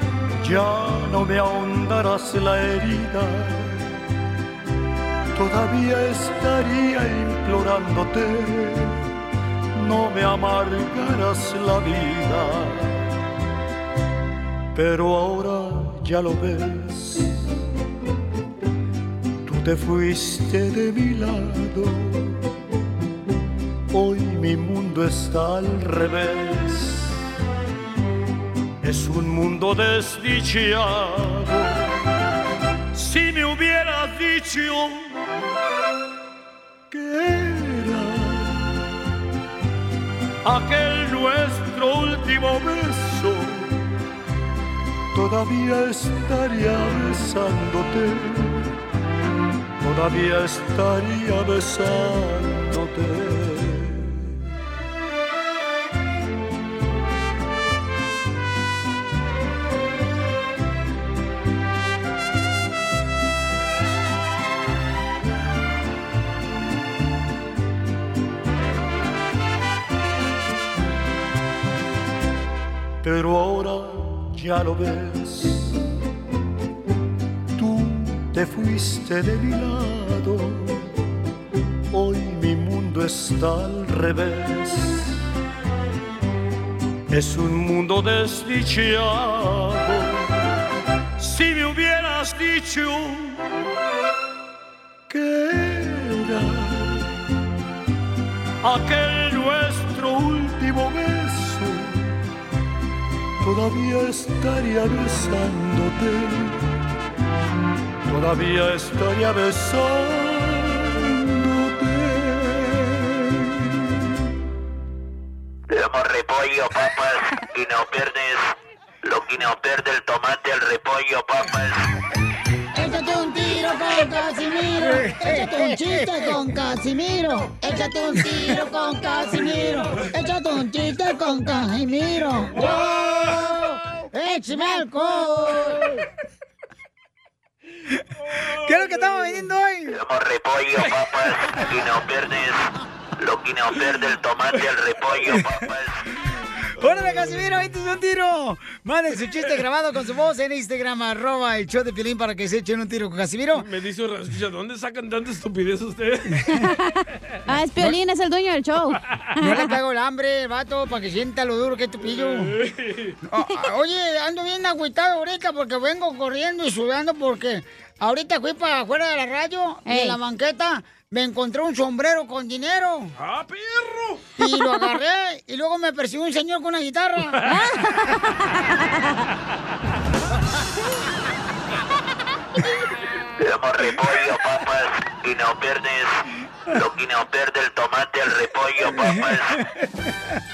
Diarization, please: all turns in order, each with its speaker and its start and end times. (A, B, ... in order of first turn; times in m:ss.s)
0:00.4-0:03.9 A
0:05.3-0:09.0 A
0:09.7-0:13.0 A
0:14.7-0:17.3 A
0:19.4-0:22.4 A
0:23.9-0:27.2 A
0:28.8-0:31.9 A
0:32.9-0:35.1 A
0:36.9-0:38.7 A
0:40.4-0:43.8 A
0:45.1-0:48.7 A
0:49.8-0:54.3 A
1:13.0-1:15.8 A
1:17.5-1:20.9 A
1:21.9-1:25.2 A
1:27.1-1:30.2 A
1:31.2-1:33.4 A
1:35.1-1:37.1 A
1:38.6-1:42.1 A
1:43.4-1:46.6 A
1:48.1-1:53.9 A
1:55.7-2:01.8 B
2:02.7-2:15.9 C
2:12.6-2:13.6 D
2:18.2-2:19.4 D
2:18.6-2:20.0 C
2:19.9-2:22.7 B
2:23.2-2:26.0 B
2:26.8-2:33.6 C
2:33.5-2:36.4 D
2:36.6-2:39.7 E
2:39.4-2:42.5 C
2:42.0-2:43.2 D
2:43.2-2:53.1 C
2:49.9-2:50.2 E
2:53.2-2:54.2 D
2:54.4-2:57.4 C
2:57.4-2:59.2 E
3:03.4-3:06.2 B
3:06.7-3:09.6 B